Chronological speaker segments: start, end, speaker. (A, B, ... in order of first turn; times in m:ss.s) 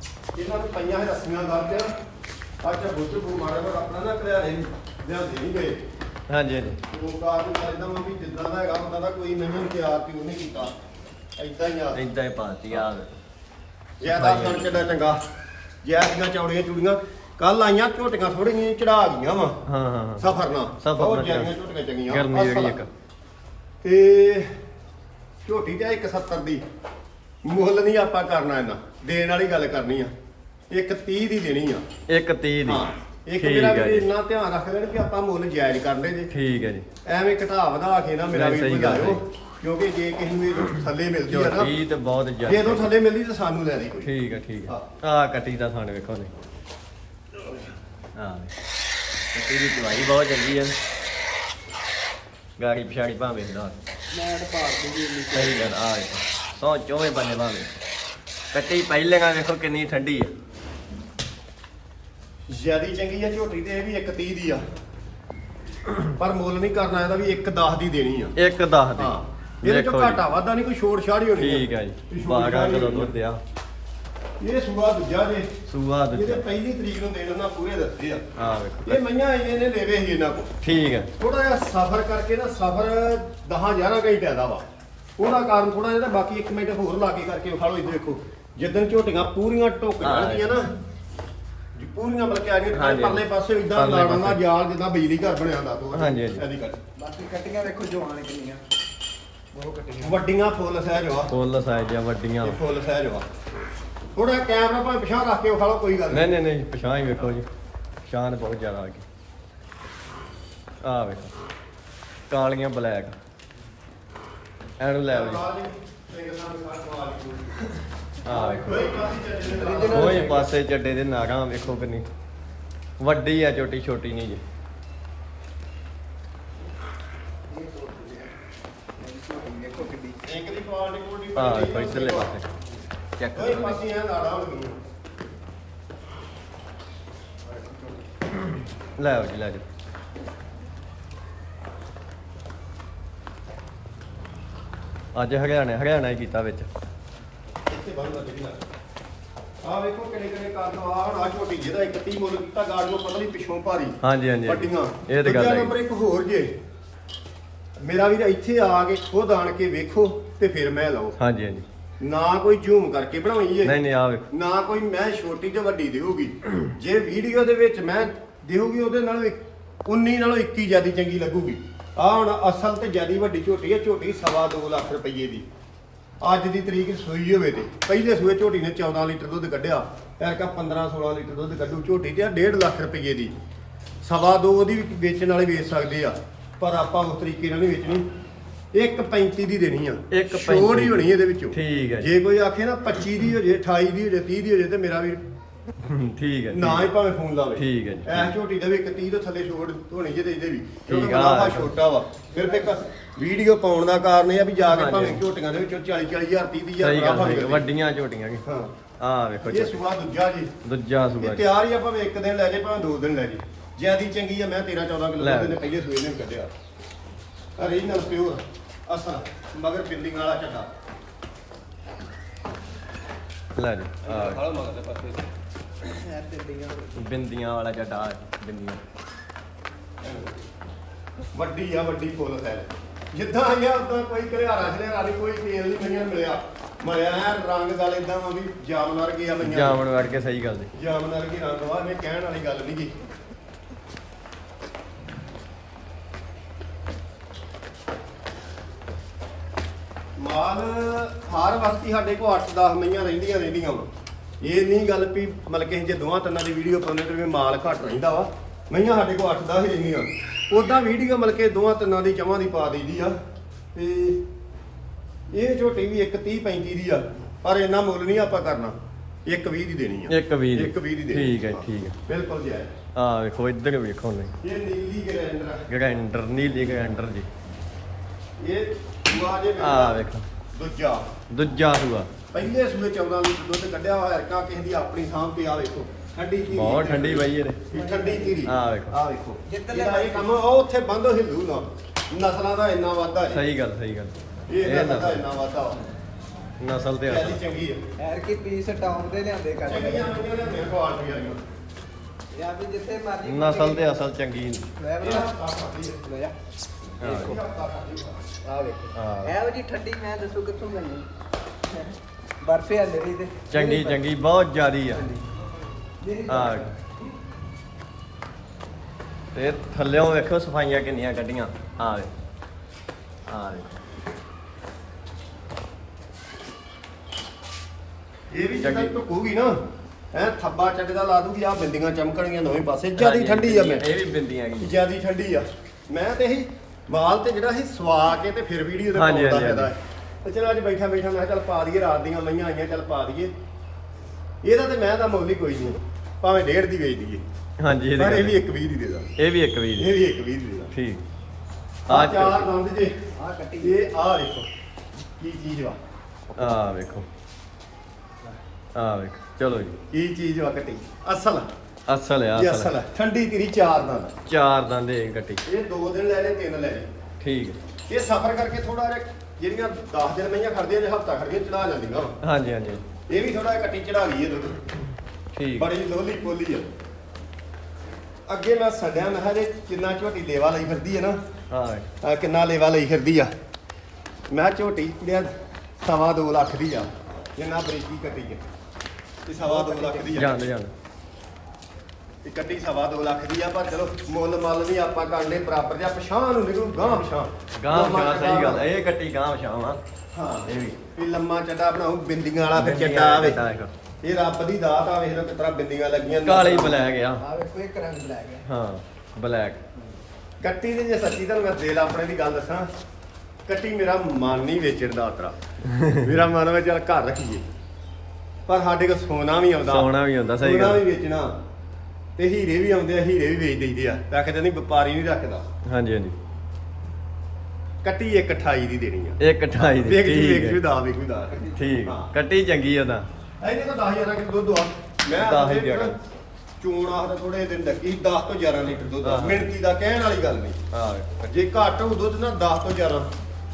0:00.3-0:01.9 A
0:02.6-0:05.8 A
0:06.3-0:06.8 B
0:06.9-0:10.7 A
0:11.4-0:12.0 A
0:11.9-0:13.1 B
0:14.0-0:15.2 A
0:14.0-0:14.8 B
0:15.8-0:19.6 A
0:19.6-0:20.3 B
0:20.2-0:22.8 A
0:20.8-0:21.5 B
0:22.1-0:22.9 B
0:23.8-0:24.6 A
0:25.4-0:26.6 A
0:27.4-0:30.1 A
0:30.7-0:31.8 A
0:32.1-0:32.8 B
0:32.6-0:36.3 A
0:33.4-0:34.1 B
0:36.3-0:36.8 B
0:37.0-0:41.7 A
0:38.3-0:39.2 B
0:41.3-0:42.9 B
0:42.4-0:44.1 A
0:44.0-0:46.3 B
0:48.2-0:48.5 B
0:49.3-0:50.8 B
0:52.6-0:53.8 B
0:54.1-0:55.7 C
0:55.3-0:57.7 B
0:58.5-1:00.3 B
1:02.5-1:04.6 A
1:06.2-1:08.3 A
1:08.4-1:10.2 B
1:09.0-1:13.1 A
1:11.4-1:13.4 B
1:14.4-1:15.5 A
1:15.7-1:16.4 B
1:16.1-1:18.2 A
1:18.4-1:19.0 B
1:18.8-1:20.5 A
1:20.6-1:21.1 B
1:21.2-1:24.6 A
1:25.2-1:30.7 A
1:30.0-1:30.6 B
1:31.7-1:36.8 A
1:32.7-1:34.4 B
1:35.9-1:36.4 B
1:37.0-1:38.6 C
1:39.5-1:40.2 C
1:40.0-1:41.3 A
1:41.3-1:42.6 B
1:42.4-1:43.2 A
1:44.1-1:46.3 A
1:46.1-1:47.4 B
1:48.0-1:49.0 B
1:50.8-1:51.3 B
1:52.3-1:53.1 B
1:54.8-1:55.4 B
1:55.1-1:57.7 A
1:58.2-1:58.8 B
1:58.3-1:58.9 C
1:58.6-2:00.4 A
1:59.5-2:00.5 C
1:59.9-2:02.0 B
2:03.0-2:04.4 B
2:07.5-2:08.3 C
2:09.0-2:10.2 C
2:10.2-2:12.3 A
2:11.3-2:12.5 B
2:13.2-2:13.8 B
2:13.3-2:14.8 A
2:19.0-2:19.6 B
2:25.1-2:26.7 B
2:27.7-2:28.7 A
2:29.6-2:36.5 A
2:34.0-2:35.7 B
2:37.8-2:41.2 A
2:41.2-2:41.6 B
2:42.0-2:43.8 A
2:43.6-2:44.2 B
2:44.3-2:55.4 A
2:56.2-3:03.3 A
3:04.0-3:08.0 A
3:08.7-3:15.2 A
3:10.1-3:12.1 B
3:15.8-3:16.9 B
3:16.5-3:27.6 A
3:17.6-3:18.3 B
3:20.9-3:21.7 B
3:24.7-3:25.2 B
3:26.8-3:28.4 B
3:28.4-3:28.7 A
3:29.0-3:29.8 B
3:29.4-3:30.5 A
3:30.6-3:31.4 B
3:31.2-3:36.5 A
3:35.2-3:35.6 B
3:37.6-3:40.7 A
3:43.6-3:44.4 B
3:44.0-3:45.3 A
3:45.8-3:47.0 C
3:47.0-3:48.8 B
3:50.0-3:50.3 A
3:51.3-3:59.8 A
3:59.4-4:00.7 B
4:00.7-4:02.9 A
4:10.2-4:13.9 A
4:14.4-4:23.1 A
4:23.7-4:24.2 A
4:25.3-4:28.7 A
4:29.2-4:32.7 A
4:30.1-4:32.0 B
4:33.0-4:34.3 B
4:34.4-4:35.6 A
4:35.7-4:37.3 B
4:38.4-4:41.1 A
4:39.6-4:40.2 B
4:41.3-4:42.1 B
4:42.3-4:53.4 A
4:46.5-4:47.6 B
4:47.7-4:48.4 C
4:48.4-4:49.0 B
4:49.5-4:50.3 C
4:53.3-4:55.2 B
4:54.5-4:55.8 A
4:56.6-4:57.4 B
4:57.0-4:57.8 A
4:58.0-5:00.2 C
4:59.6-5:01.4 A
5:02.3-5:04.0 C
5:03.2-5:04.7 B
5:04.8-5:05.3 C
5:05.0-5:06.0 A
5:06.0-5:06.3 C
5:07.0-5:07.4 B
5:07.0-5:08.2 A
5:08.4-5:11.0 C
5:08.9-5:09.4 B
5:11.7-5:14.0 C
5:13.5-5:15.0 B
5:14.9-5:15.2 C
5:16.0-5:16.8 C
5:16.3-5:16.7 B
5:19.3-5:22.1 B
5:23.3-5:23.7 B
5:28.3-5:29.6 A
5:28.6-5:28.9 B
5:30.1-5:33.9 A
5:33.0-5:34.7 B
5:34.6-5:43.3 A
5:38.9-5:39.7 B
5:44.4-5:47.2 A
5:47.6-5:48.4 B
5:47.9-5:49.1 A
5:49.2-5:49.9 B
5:49.8-5:50.7 A
5:50.7-5:51.0 B
5:51.9-5:52.5 B
5:51.9-5:52.9 A
5:53.2-5:53.8 C
5:53.6-5:54.5 A
5:55.2-5:55.8 A
5:56.4-5:57.0 B
5:58.7-5:59.8 B
5:59.9-6:01.5 A
6:01.9-6:02.7 B
6:02.3-6:04.1 A
6:04.3-6:05.4 B
6:05.4-6:06.9 A
6:07.2-6:07.6 B
6:07.9-6:12.2 A
6:12.2-6:12.8 B
6:13.1-6:14.6 A
6:15.3-6:15.7 B
6:15.6-6:16.7 A
6:18.3-6:21.2 A
6:21.5-6:21.8 B
6:22.0-6:23.3 A
6:24.3-6:28.4 A
6:29.2-6:30.4 A
6:29.4-6:30.2 C
6:30.1-6:30.7 B
6:32.2-6:38.6 A
6:37.6-6:39.8 B
6:40.1-6:43.4 A
6:40.5-6:40.7 B
6:42.5-6:43.7 B
6:44.0-6:46.8 A
6:46.2-6:47.2 B
6:47.2-6:48.4 C
6:48.4-6:49.6 B
6:50.4-6:52.7 A
6:53.5-6:55.3 A
6:55.7-6:56.0 B
6:55.9-6:57.4 A
6:58.5-7:01.3 A
6:59.6-7:00.8 B
7:02.2-7:05.4 A
7:05.7-7:06.2 B
7:07.8-7:12.1 A
7:09.2-7:10.6 B
7:11.5-7:13.1 B
7:13.4-7:15.9 A
7:15.1-7:15.9 B
7:16.6-7:20.6 A
7:19.0-7:19.4 B
7:20.7-7:21.3 B
7:21.3-7:23.1 A